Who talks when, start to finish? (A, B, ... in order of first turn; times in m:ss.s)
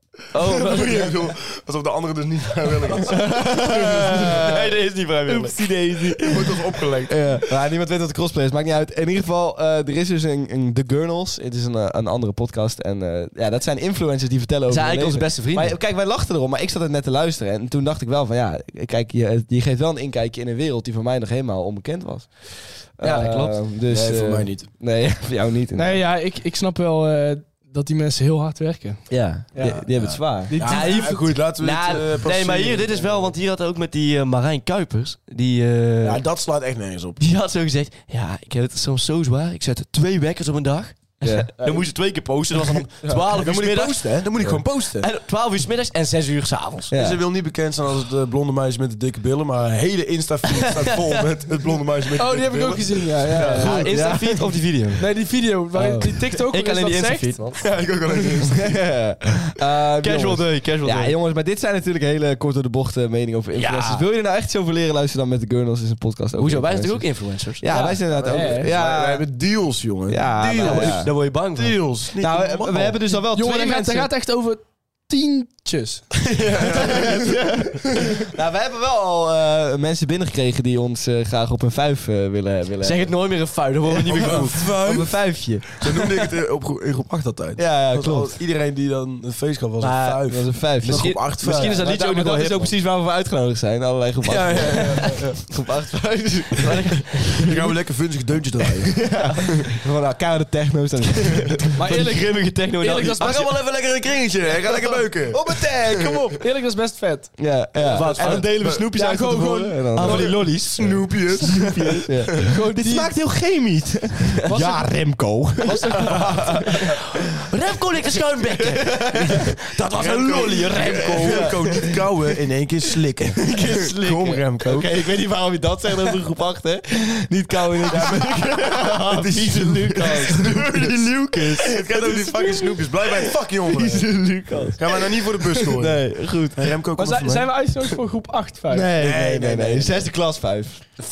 0:00.3-0:01.2 A
0:00.4-0:04.5 B
0:03.0-0:26.0 C
0:04.0-0:05.7 A
0:06.2-0:07.2 B
0:14.7-0:15.8 A
0:23.0-0:23.6 A
0:23.8-0:24.7 B
0:25.7-0:31.3 D
0:29.1-0:30.5 C
0:29.9-0:33.3 B
0:30.6-0:36.2 A
0:36.0-0:37.2 B
0:37.2-0:46.9 A
0:41.2-0:41.5 C
0:41.6-0:41.9 B
0:42.7-0:45.1 B
0:46.9-0:47.2 C
0:46.9-0:53.9 B
0:52.2-0:53.8 D
0:53.5-0:55.0 A
0:53.6-0:54.6 C
0:55.0-0:57.4 D
0:56.0-0:57.6 A
0:57.6-0:58.8 B
0:58.5-1:09.2 C
1:00.0-1:01.2 A
1:03.5-1:04.0 A
1:06.4-1:07.7 A
1:07.7-1:08.7 D
1:08.1-1:13.0 B
1:10.1-1:11.1 C
1:10.6-1:11.8 A
1:12.2-1:14.1 C
1:13.2-1:16.1 D
1:16.2-1:17.4 B
1:16.7-1:23.2 C
1:22.8-1:24.7 A
1:23.9-1:26.2 C
1:24.0-1:31.9 B
1:27.6-1:28.4 C
1:29.8-1:32.8 A
1:30.2-1:37.7 C
1:34.2-1:35.4 B
1:34.6-1:35.0 A
1:36.6-1:37.7 A
1:37.3-1:39.7 B
1:39.0-1:41.6 C
1:41.7-1:43.5 A
1:41.8-1:43.5 D
1:43.0-1:46.4 B
1:45.2-1:46.4 C
1:46.4-1:47.4 D
1:47.4-1:50.5 C
1:47.8-1:48.7 A
1:48.0-1:48.9 B
1:48.9-1:50.3 D
1:50.0-1:51.4 A
1:50.1-1:52.5 B
1:51.4-1:56.9 C
1:52.4-1:53.2 D
1:54.4-1:56.6 D
1:56.0-1:56.6 A
1:57.3-2:01.9 A
1:58.6-1:59.5 C
1:59.9-2:04.9 B
2:00.8-2:02.2 C
2:03.4-2:16.7 C
2:07.9-2:17.5 B
2:10.3-2:11.7 A
2:17.0-2:18.9 D
2:18.7-2:20.9 C
2:19.0-2:20.1 B